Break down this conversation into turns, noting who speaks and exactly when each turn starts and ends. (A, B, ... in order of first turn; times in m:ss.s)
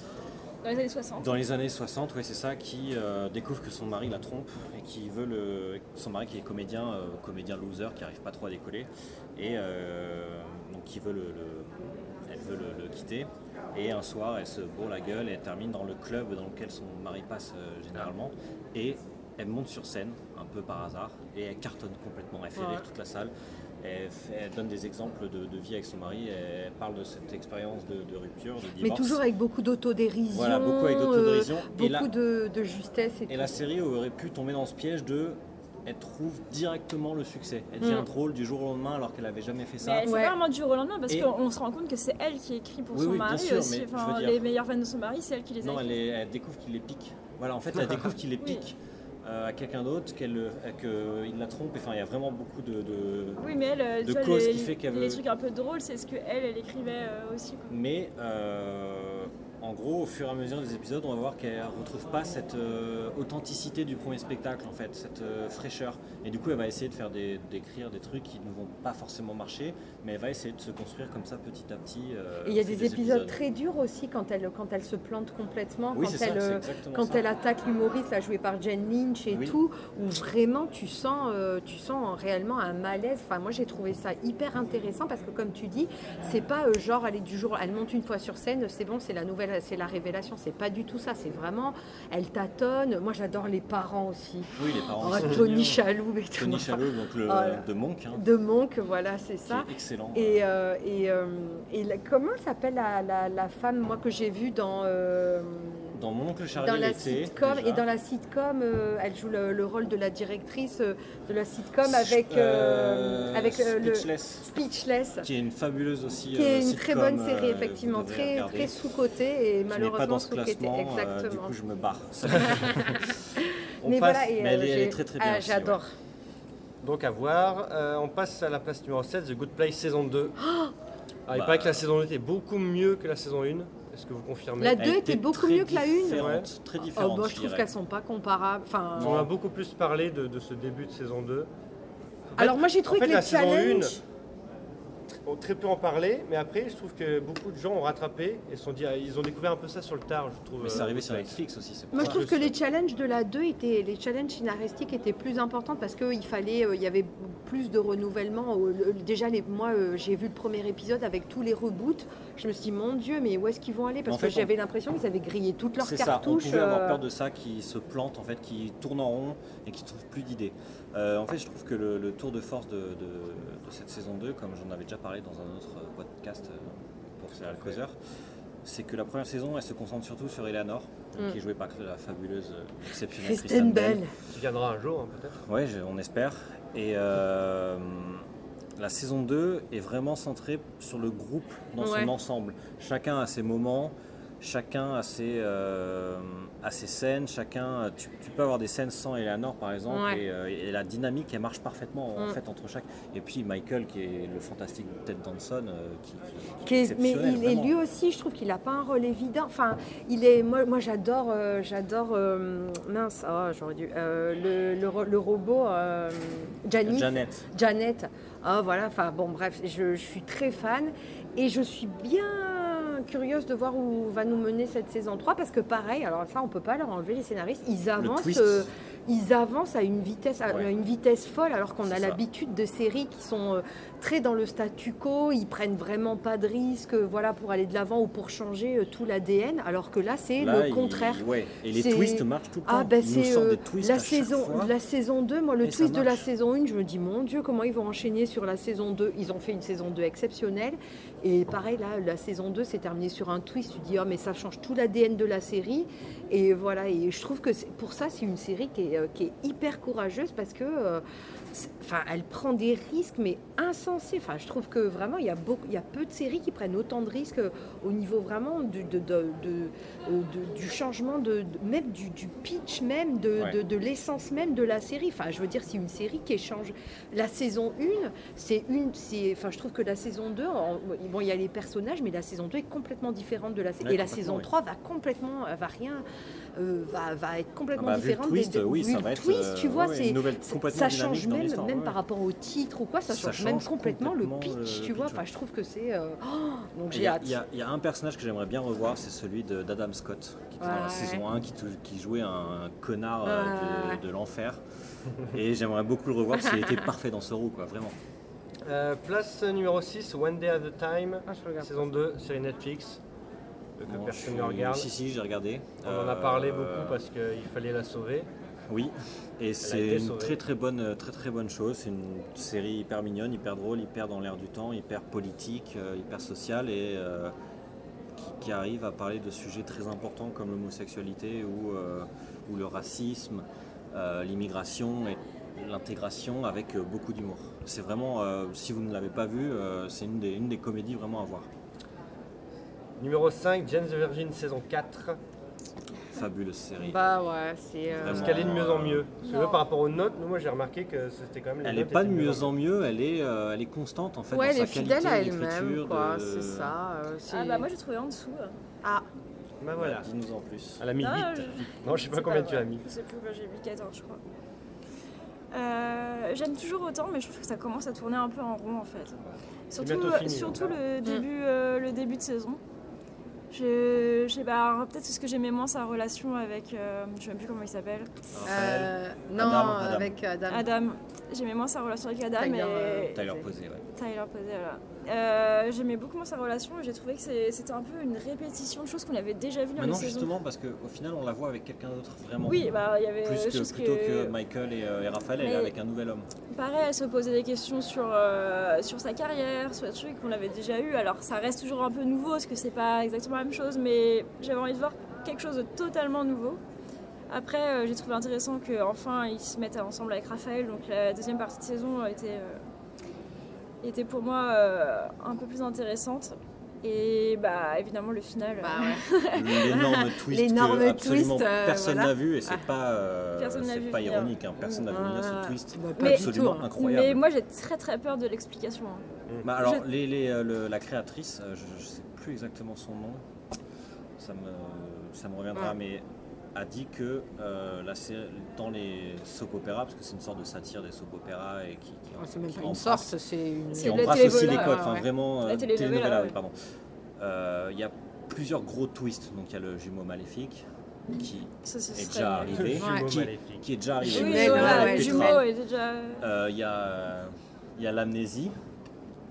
0:00.6-0:01.3 A
0:01.2-0:11.7 B
0:12.3-0:23.3 B
0:22.6-0:22.8 C
0:23.8-0:29.2 B
0:28.8-0:33.6 C
0:30.3-0:32.1 B
0:33.3-0:40.1 B
0:37.8-0:38.1 C
0:39.8-0:46.0 A
0:40.1-0:40.4 C
0:42.9-0:44.4 B
0:45.6-0:53.4 B
0:53.4-0:57.7 A
0:54.0-0:55.2 B
0:57.7-1:13.4 B
1:12.4-1:46.0 C
1:15.9-1:17.2 B
1:19.3-1:19.6 B
1:34.6-1:35.8 B
1:36.4-1:38.2 B
1:39.5-1:40.4 B
1:45.9-1:47.8 B
1:46.6-1:55.3 C
1:51.8-1:54.5 B
1:55.2-1:58.8 B
1:56.3-2:01.5 C
1:59.7-2:03.2 B
2:02.4-2:05.9 C
2:03.8-2:04.3 D
2:04.2-2:05.8 B
2:06.8-2:10.4 D
2:10.4-2:10.7 C
2:11.3-2:14.9 D
2:11.3-2:11.8 B
2:14.6-2:19.2 C
2:14.8-2:17.7 B
2:16.2-2:16.5 D
2:19.0-2:19.3 B
2:19.0-2:21.5 D
2:22.3-2:24.0 D
2:22.4-2:24.0 C
2:25.2-2:31.4 D
2:30.6-2:32.5 B
2:31.9-2:47.0 C
2:32.0-2:32.5 D
2:44.1-2:44.5 B
2:45.8-2:58.0 B
2:57.5-2:57.8 D
2:58.6-3:04.1 B
3:03.1-3:04.1 C
3:04.3-3:05.4 D
3:05.4-3:08.3 B
3:08.8-3:27.7 B
3:11.8-3:12.1 C
3:19.9-3:20.2 C
3:26.6-4:46.0 C
3:36.8-3:37.5 B
3:48.0-3:48.7 B
3:51.9-3:52.2 B
4:00.4-4:04.7 B
4:05.6-4:06.2 B
4:43.8-4:44.5 B
4:46.6-4:57.4 C
4:47.8-4:52.0 B
4:53.1-4:55.2 B
4:56.9-5:04.6 B
5:00.6-5:01.2 C
5:03.2-5:04.0 C
5:05.2-5:08.0 B
5:08.6-5:13.0 D
5:11.3-5:11.8 C
5:13.8-5:14.9 D
5:13.9-5:17.0 B
5:15.8-5:18.3 D
5:18.7-5:27.3 B
5:19.6-5:20.4 D
5:28.2-5:41.5 B
5:43.0-5:45.2 D
5:46.1-5:47.0 B
5:46.8-5:48.5 C
5:48.0-5:49.0 B
5:48.0-5:52.5 D
5:49.2-5:49.6 A
5:51.6-5:56.8 B
5:54.3-5:57.7 C
5:57.3-5:58.6 A
5:59.6-6:00.1 D
5:59.8-6:00.8 B
6:00.8-6:02.9 D
6:01.0-6:04.2 A
6:05.5-6:09.2 A
6:09.7-6:12.6 A
6:09.8-6:10.8 D
6:13.5-6:18.1 A
6:18.3-6:20.2 B
6:18.4-6:20.7 C
6:20.5-6:23.2 A
6:22.4-6:23.5 C
6:23.1-6:23.8 B
6:23.9-6:30.3 A
6:29.8-6:36.3 B
6:32.4-6:34.4 A
6:35.4-6:35.7 A
6:36.5-6:46.6 A
6:47.3-6:52.6 A
6:53.8-6:59.8 A
6:58.6-6:59.0 C
6:59.3-7:07.2 B
6:59.7-7:02.6 C
7:03.4-7:04.3 A
7:04.6-7:06.7 C
7:06.0-7:09.0 A
7:09.4-7:13.2 B
7:09.6-7:09.8 A
7:14.2-7:16.0 B
7:16.6-7:23.2 B
7:22.2-7:25.1 C
7:23.7-7:24.9 A
7:23.7-7:26.5 B
7:25.4-7:26.4 A
7:27.2-7:30.6 B
7:31.2-7:35.5 B
7:31.6-7:32.6 A
7:32.5-7:33.7 D
7:32.8-7:33.1 C
7:34.0-7:35.4 C
7:34.1-7:36.2 A
7:36.2-7:38.6 B